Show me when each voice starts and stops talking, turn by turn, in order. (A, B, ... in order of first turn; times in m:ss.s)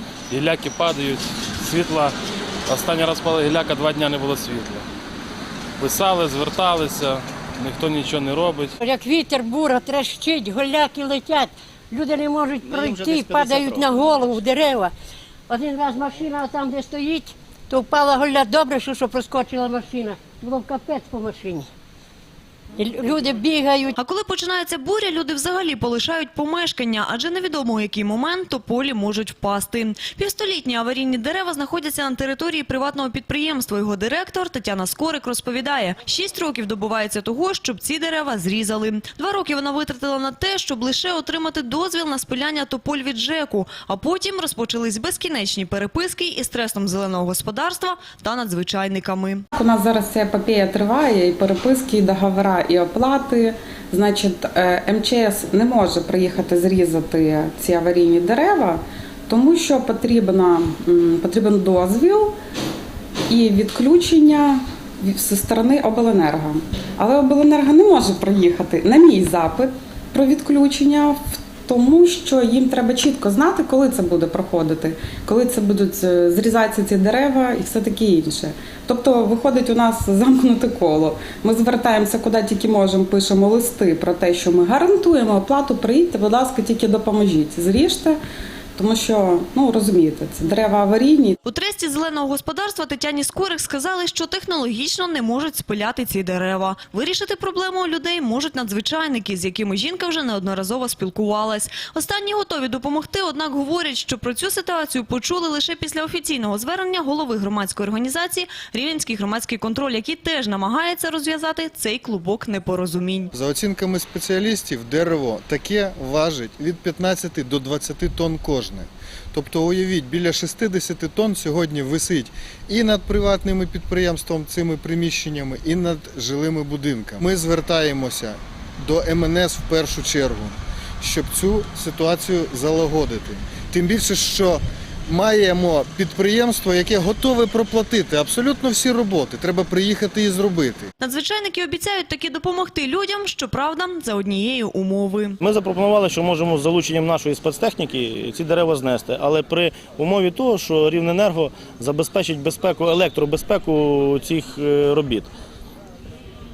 0:00.3-0:02.1 A
0:02.7-0:04.8 A
0:05.8-0:08.7 A
0:08.8-0:14.9 B
0:12.6-0:14.2 C
0:15.5-0:21.7 B
0:22.8-0:24.0 B
0:24.0-0:49.4 D
0:49.5-1:02.3 E
1:03.3-1:28.2 E
1:28.8-1:31.4 E
1:31.4-1:53.3 D
1:53.3-2:20.9 F
2:21.0-2:25.4 D
2:25.4-2:35.3 C